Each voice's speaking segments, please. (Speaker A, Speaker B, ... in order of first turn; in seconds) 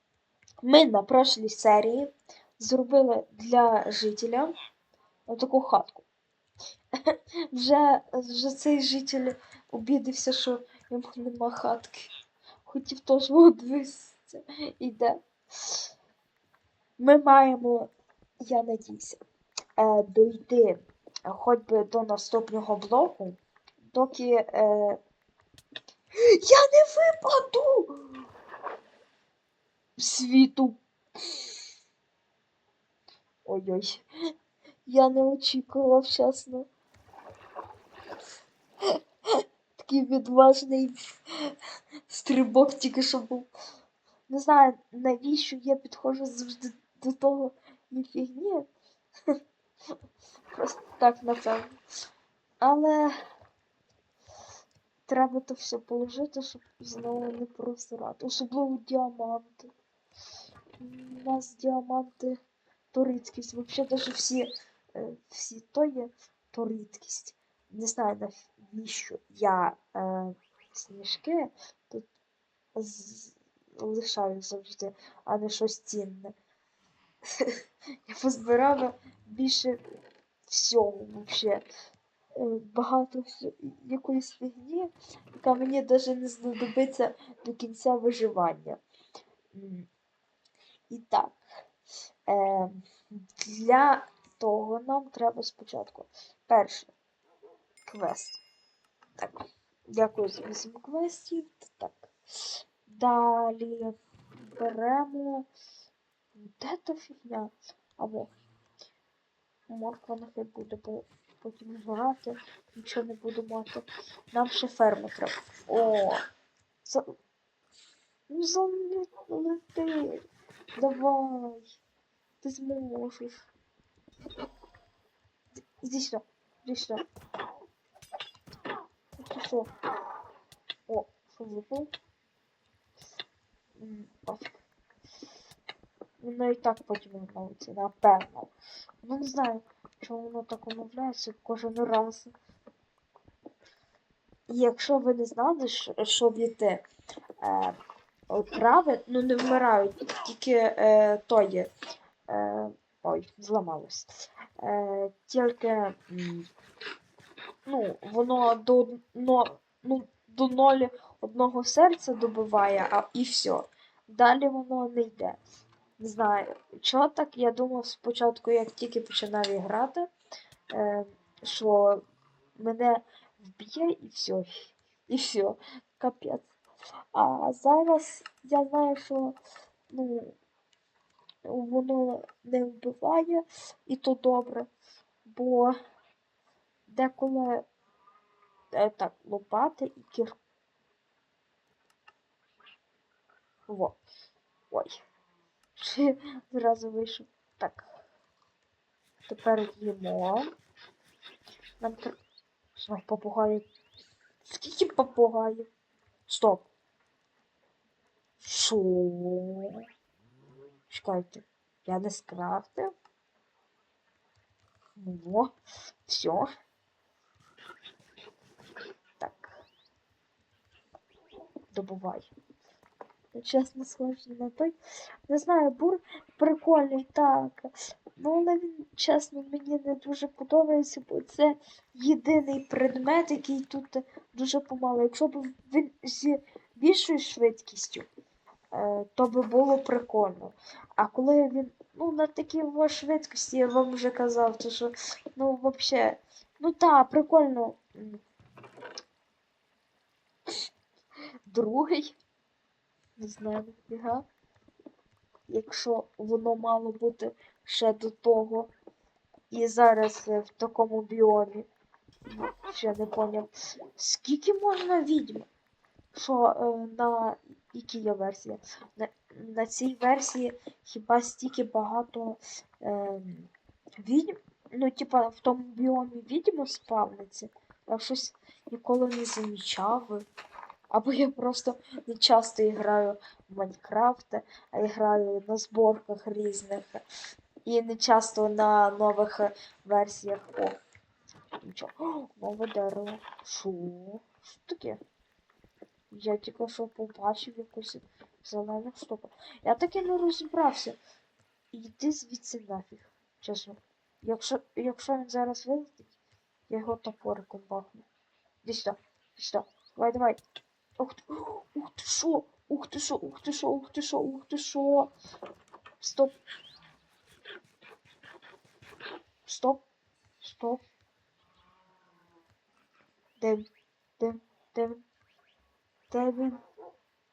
Speaker A: 0.6-4.5, 5.3-6.0, 7.1-12.1, 12.7-15.9, 17.0-19.2, 19.8-25.0, 26.2-28.2, 30.0-31.5, 33.5-34.0, 34.9-36.7, 38.9-41.5, 42.1-43.5, 44.3-48.7, 50.5-51.8, 52.6-53.1, 55.1-59.7, 60.8-62.4, 62.9-72.0, 72.8-76.3, 77.3-79.8, 80.5-81.7, 82.4-88.8, 89.5-89.9, 90.9-91.4, 92.3-92.9, 93.4-96.9, 97.8-98.4, 99.2-105.5, 106.3-108.3, 109.7-116.2, 116.8-117.1, 118.3-120.2, 120.8-121.8, 122.4-123.5, 125.8-127.0, 129.2-129.7, 130.9-131.9, 133.8-134.5, 136.2-142.3, 144.5-146.8, 147.4-147.8, 148.3-151.7, 152.3-156.5, 157.7-165.4, 166.0-170.1, 170.7-172.0, 172.6-176.5, 177.1-179.4, 179.9-180.3, 181.4-184.7, 185.2-185.8, 186.9-187.7, 188.8-190.3, 193.7-194.0, 194.7-195.0, 195.8-197.9, 199.3-200.5, 201.8-202.2, 202.8-203.7, 204.4-205.7, 206.3-206.7, 208.4-209.8, 210.9-212.9, 215.0-215.5, 216.1-216.5, 219.2-219.6, 221.7-222.3, 223.3-224.7, 225.3-238.1, 238.7-248.2, 251.5-252.1, 253.2-254.3, 255.5-258.7, 259.5-261.7, 262.3-265.5, 266.1-280.3, 280.9-287.0, 287.6-290.8, 291.6-295.0, 296.1-301.0, 301.7-306.1, 306.7-308.1, 308.6-310.4, 311.0-315.1, 316.0-316.4, 319.5-319.8, 320.4-320.8, 323.4-323.7, 324.2-325.0, 326.1-326.6